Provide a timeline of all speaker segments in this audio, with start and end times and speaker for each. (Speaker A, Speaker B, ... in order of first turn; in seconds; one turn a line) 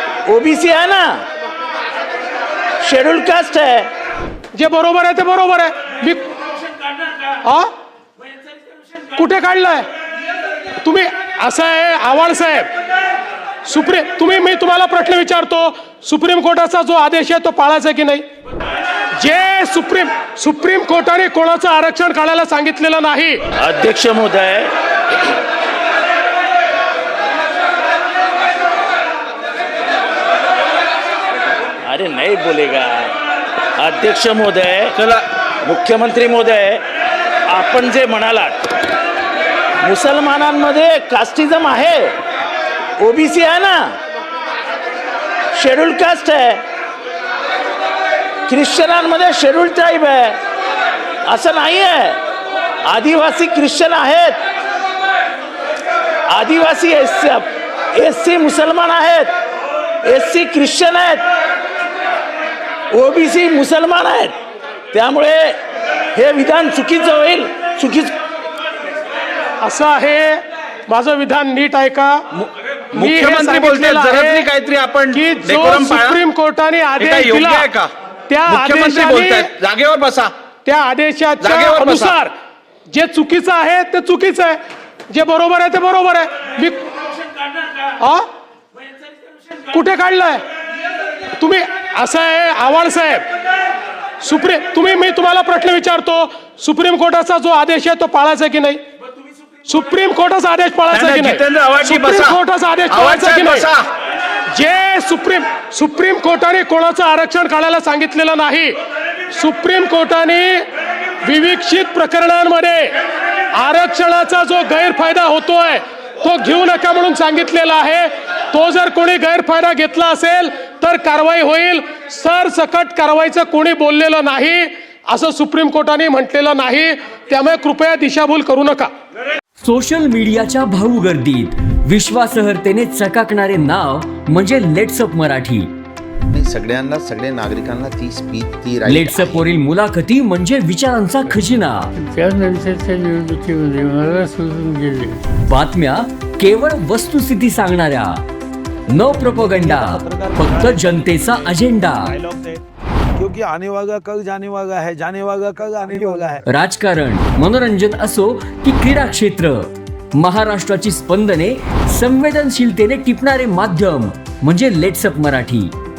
Speaker A: 0.3-1.2
Speaker A: 2.8-3.9
Speaker B: 4.5-6.2
Speaker B: 7.4-7.7
Speaker B: 9.1-9.9
Speaker B: 10.8-12.7
Speaker B: 13.7-18.3
Speaker B: 19.2-23.4
Speaker A: 23.6-24.7
Speaker A: 31.8-33.1
Speaker A: 33.8-35.0
Speaker C: 35.0-35.2
Speaker A: 35.6-36.8
Speaker A: 37.5-38.6
Speaker A: 39.8-42.1
Speaker A: 43.0-44.0
Speaker A: 45.5-46.6
Speaker A: 48.5-50.4
Speaker A: 51.3-52.2
Speaker A: 52.8-54.4
Speaker A: 56.3-59.3
Speaker A: 60.0-61.2
Speaker A: 62.9-64.3
Speaker A: 64.9-65.6
Speaker A: 66.1-68.1
Speaker B: 69.6-72.2
Speaker C: 72.4-76.2
Speaker B: 72.9-74.5
Speaker B: 75.1-77.7
Speaker C: 77.0-77.9
Speaker B: 78.3-79.5
Speaker C: 78.5-80.3
Speaker B: 80.7-82.3
Speaker C: 81.4-82.2
Speaker B: 82.9-84.6
Speaker B: 85.1-86.9
Speaker B: 88.0-88.3
Speaker B: 89.7-90.4
Speaker B: 91.4-93.3
Speaker B: 94.2-98.8
Speaker B: 99.7-103.7
Speaker C: 100.9-103.9
Speaker B: 104.5-108.8
Speaker B: 109.3-110.7
Speaker B: 111.2-113.0
Speaker B: 113.5-128.9
Speaker D: 129.6-135.7
Speaker E: 136.3-139.4
Speaker D: 138.8-141.9
Speaker F: 142.0-145.2
Speaker D: 145.4-148.2
Speaker D: 148.9-152.2
Speaker G: 149.1-151.5
Speaker G: 152.1-152.6
Speaker G: 153.2-156.4
Speaker D: 156.5-165.7